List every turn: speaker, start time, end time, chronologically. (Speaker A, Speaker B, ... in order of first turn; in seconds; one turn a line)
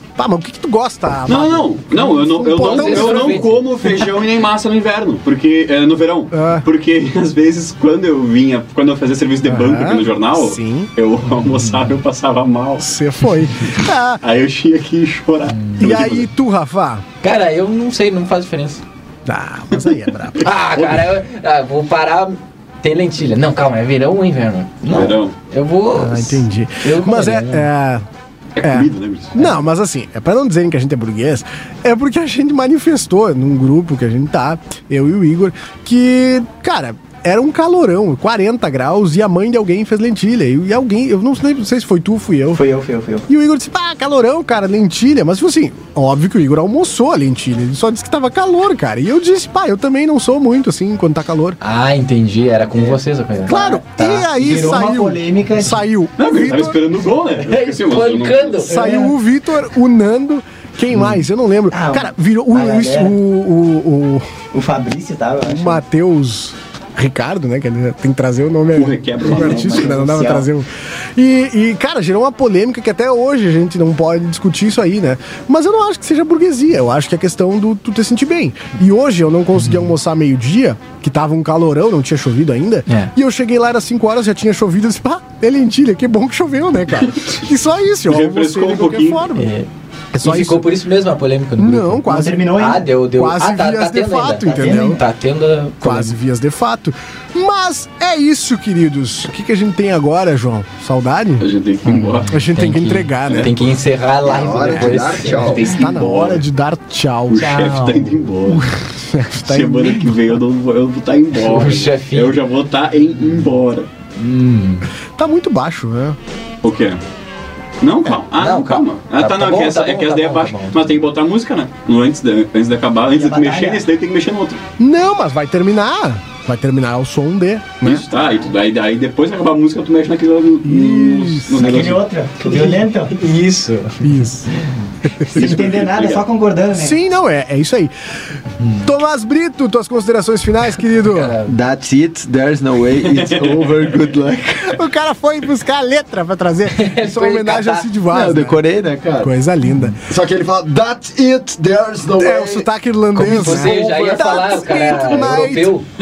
Speaker A: 0.2-4.1
Speaker B: 1.3-13.0
Speaker C: 2.6-3.7
Speaker A: 6.3-6.7
Speaker A: 9.4-10.9
Speaker C: 11.5-11.8
Speaker A: 12.8-14.2
Speaker B: 14.2-16.3
Speaker C: 15.5-15.9
Speaker A: 15.8-17.1
Speaker C: 17.2-18.8
Speaker A: 19.3-20.5
Speaker B: 20.4-21.1
Speaker C: 20.4-27.7
Speaker B: 24.9-25.3
Speaker A: 25.9-28.1
Speaker B: 28.6-29.4
Speaker A: 28.6-42.6
Speaker D: 42.5-43.3
Speaker A: 43.3-51.6
Speaker C: 51.6-54.3
Speaker A: 53.5-56.8
Speaker D: 54.4-55.8
Speaker B: 56.2-58.7
Speaker C: 57.5-59.1
Speaker A: 58.7-64.3
Speaker D: 58.8-59.1
Speaker D: 61.7-63.2
Speaker D: 64.5-65.8
Speaker A: 65.5-89.5
Speaker B: 68.8-69.9
Speaker D: 69.2-70.5
Speaker C: 79.6-79.9
Speaker C: 82.9-83.1
Speaker B: 88.1-89.2
Speaker C: 89.4-89.7
Speaker A: 90.1-90.7
Speaker C: 90.2-92.0
Speaker A: 91.6-95.0
Speaker D: 92.1-92.9
Speaker C: 92.6-96.2
Speaker D: 94.5-95.0
Speaker A: 95.8-101.5
Speaker B: 101.4-102.3
Speaker C: 101.9-105.8
Speaker A: 102.3-103.5
Speaker B: 103.3-103.5
Speaker E: 104.2-105.8
Speaker B: 105.5-106.4
Speaker A: 105.6-107.5
Speaker B: 107.3-108.7
Speaker C: 107.4-108.2
Speaker A: 108.5-110.1
Speaker B: 109.5-113.9
Speaker C: 111.4-112.4
Speaker C: 114.2-114.9
Speaker A: 115.2-116.2
Speaker B: 116.6-117.0
Speaker B: 117.8-124.6
Speaker C: 118.4-121.0
Speaker D: 123.1-123.8
Speaker A: 124.8-128.1
Speaker B: 127.8-132.1
Speaker A: 130.6-131.9
Speaker D: 131.6-133.2
Speaker C: 132.4-134.8
Speaker A: 134.0-134.5
Speaker A: 135.0-135.4
Speaker D: 135.3-137.0
Speaker B: 135.3-136.2
Speaker A: 136.7-137.9
Speaker A: 138.8-141.3
Speaker C: 141.1-141.5
Speaker E: 141.5-144.8
Speaker B: 143.1-143.9
Speaker A: 144.7-148.6
Speaker C: 146.7-147.9
Speaker E: 148.1-149.3
Speaker A: 149.2-150.0
Speaker E: 150.1-152.7
Speaker A: 152.2-155.8
Speaker C: 153.2-155.8
Speaker E: 153.5-154.2
Speaker B: 154.9-155.2